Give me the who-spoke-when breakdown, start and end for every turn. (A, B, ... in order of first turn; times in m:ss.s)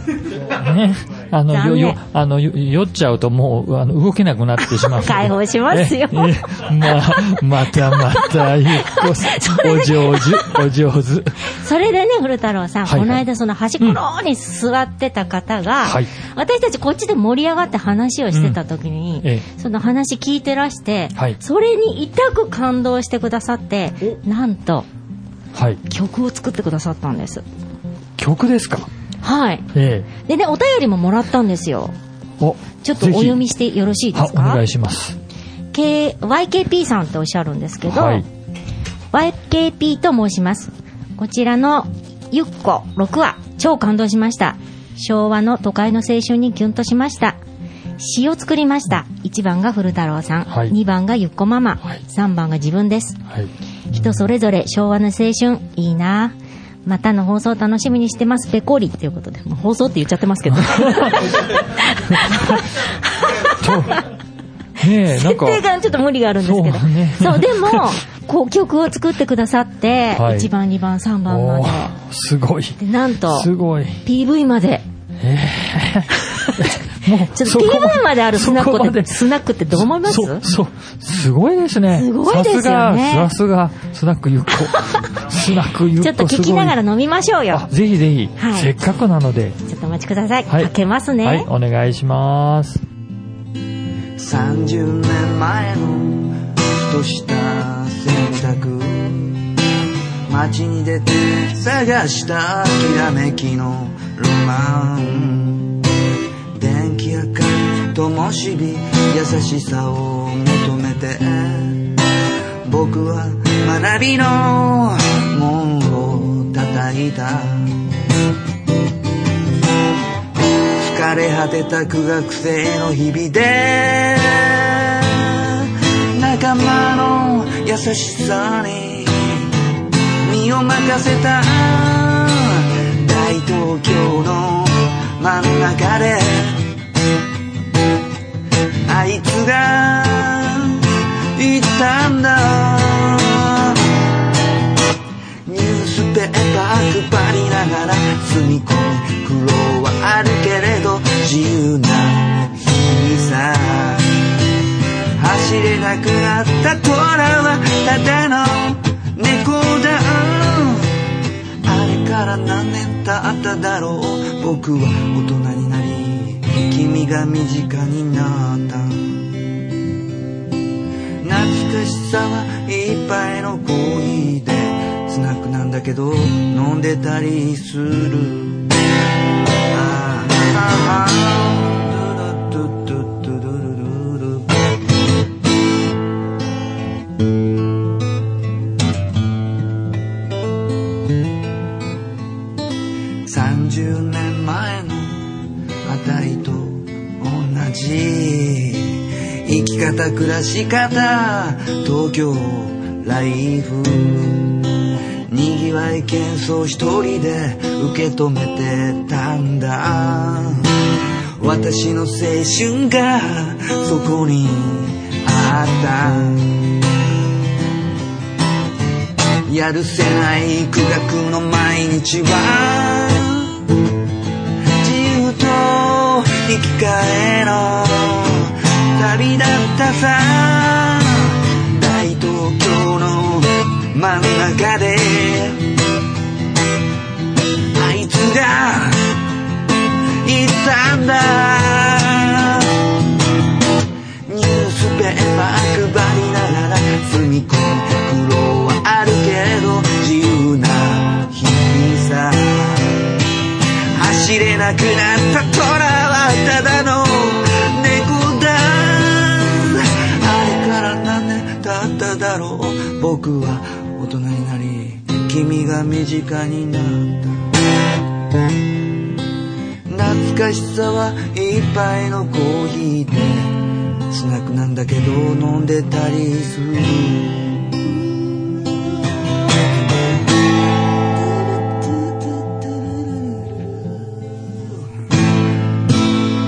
0:00.5-0:11.4 A
0:01.5-0:02.0 B
0:04.6-0:10.6 B
0:11.5-0:24.9 B
0:12.9-0:13.2 A
0:15.8-0:16.1 A
0:18.3-0:18.6 A
0:25.5-0:25.8 A
0:25.9-0:27.4 B
0:28.2-0:28.9 A
0:29.2-0:29.7 B
0:29.7-0:30.1 A
0:30.2-0:31.9 B
0:32.4-0:33.4 A
0:32.8-0:34.6 B
0:34.1-0:35.2 A
0:35.7-0:38.2 B
0:37.9-0:38.3 A
0:39.1-0:47.4 B
0:48.0-0:53.2 B
0:50.5-0:50.8 A
0:53.3-0:54.2 A
0:53.9-1:04.0 B
1:00.6-1:01.4 A
1:02.1-1:02.6 A
1:03.6-1:04.0 A
1:04.8-1:05.6 A
1:05.1-1:11.9 B
1:06.4-1:07.9 A
1:10.1-1:10.5 A
1:11.3-1:12.8 A
1:12.8-1:13.5 B
1:13.3-1:14.0 A
1:14.0-1:14.8 B
1:15.2-1:26.8 A
1:17.3-1:20.4 B
1:21.9-1:23.3 B
1:24.7-1:25.1 B
1:26.0-1:27.7 B
1:27.5-1:29.6 A
1:28.4-1:28.7 B
1:29.6-1:31.5 B
1:31.2-1:32.8 A
1:34.2-1:39.5 C
1:40.3-1:45.9 C
1:46.5-1:52.0 C
1:52.6-1:57.8 C
2:00.8-2:09.5 C
2:10.2-2:16.7 C
2:18.9-2:23.9 C
2:25.4-2:34.3 C
2:35.2-2:41.0 C
2:41.6-2:49.3 C
2:51.2-2:58.7 C
2:59.7-3:04.5 C
3:13.2-3:15.3 C
3:15.8-3:24.7 C
3:25.3-3:30.9 C
3:31.4-3:36.7 C
3:39.5-3:43.5 C
3:44.8-3:55.7 C
3:57.8-3:59.2 C
4:00.2-4:02.9 C
4:04.3-4:13.1 C
4:13.9-4:27.5 C
4:29.9-4:37.9 C
4:41.8-4:44.7 C